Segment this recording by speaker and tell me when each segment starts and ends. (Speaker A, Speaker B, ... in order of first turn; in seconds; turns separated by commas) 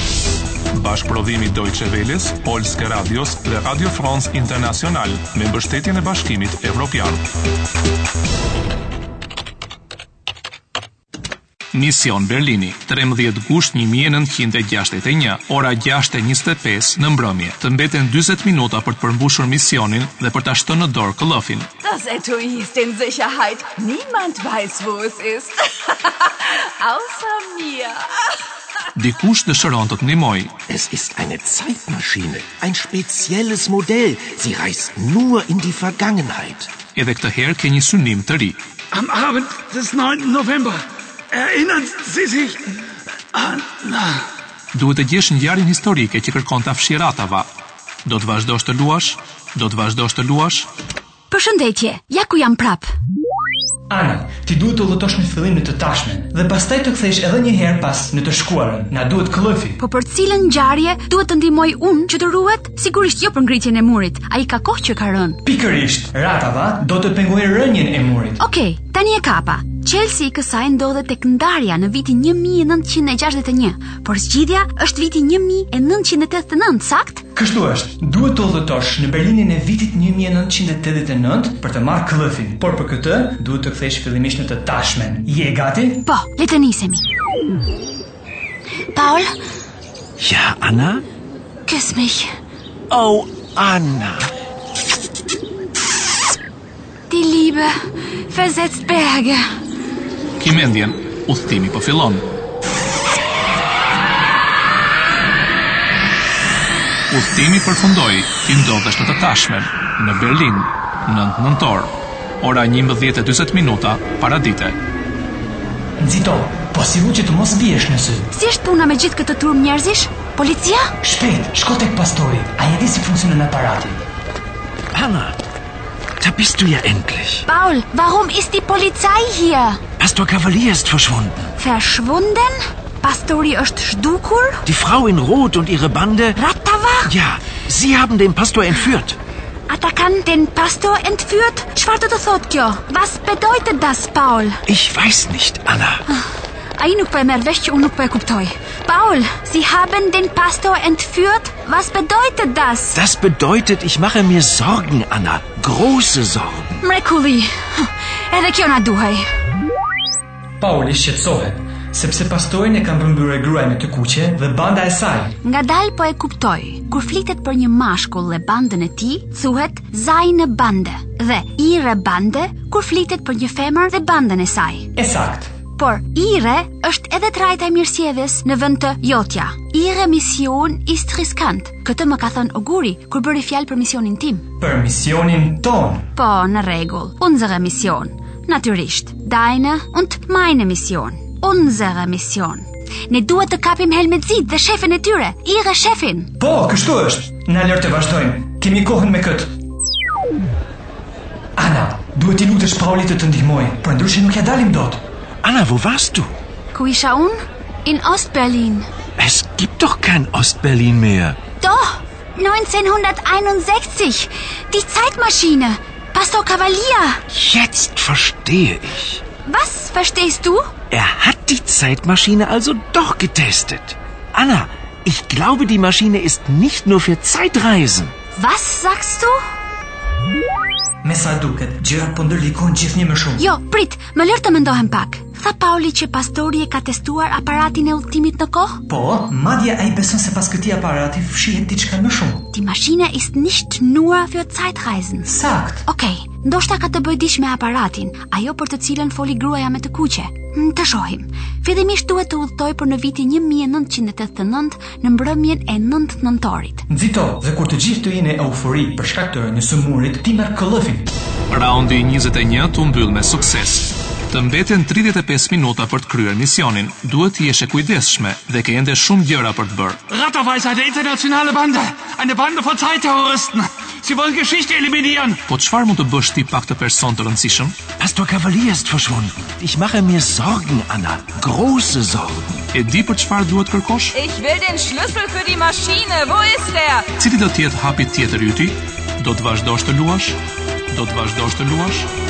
Speaker A: 0.7-7.2, Speaker A: 11.7-21.7, Speaker B: 21.8-28.1, Speaker A: 28.9-30.5, Speaker C: 30.7-36.8, Speaker A: 36.9-38.6, Speaker D: 38.9-42.6, Speaker D: 43.3-44.2, Speaker A: 44.7-47.5, Speaker A: 48.0-50.7, Speaker E: 51.3-52.9, Speaker F: 53.9-59.8, Speaker E: 59.8-65.4, Speaker F: 65.4-68.4, Speaker E: 68.4-77.2, Speaker F: 77.3-86.0, Speaker E: 86.0-87.0, Speaker E: 88.9-89.3, Speaker C: 90.2-91.0, Speaker E: 91.7-92.3, Speaker C: 92.9-94.3, Speaker E: 97.1-97.7, Speaker E: 98.3-99.4, Speaker A: 100.4-102.3, Speaker A: 107.1-114.8, Speaker F: 116.0-118.3, Speaker E: 118.3-120.9, Speaker F: 121.0-124.0, Speaker C: 124.9-125.3, Speaker C: 126.2-127.4, Speaker E: 127.5-129.8, Speaker C: 130.0-131.5, Speaker E: 131.6-134.6, Speaker C: 134.6-136.4, Speaker E: 136.3-137.1, Speaker C: 137.1-139.2, Speaker E: 139.7-144.6, Speaker C: 144.7-146.0, Speaker E: 146.8-153.0, Speaker C: 152.9-156.7, Speaker E: 156.8-159.2, Speaker F: 160.6-165.3, Speaker E: 165.4-174.9, Speaker F: 174.9-175.5, Speaker E: 175.8-184.4, Speaker F: 184.6-186.1, Speaker E: 186.1-196.3, Speaker F: 196.4-199.5, Speaker F: 201.6-205.0, Speaker C: 205.4-206.3, Speaker E: 206.7-208.9, Speaker C: 209.2-211.4, Speaker E: 211.6-217.2, Speaker C: 217.3-219.2, Speaker E: 219.4-220.7, Speaker C: 220.9-228.1, Speaker E: 228.3-229.4, Speaker F: 231.0-233.4, Speaker E: 233.4-238.8, Speaker F: 238.9-242.5, Speaker E: 242.5-245.3, Speaker F: 245.2-245.8, Speaker E: 245.8-256.9, Speaker F: 256.9-261.1, Speaker A: 261.5-270.0, Speaker D: 270.1-275.4, Speaker A: 275.5-277.8, Speaker C: 278.0-282.6, Speaker A: 282.7-284.2, Speaker B: 284.1-287.1, Speaker A: 287.2-290.4, Speaker A: 290.9-292.1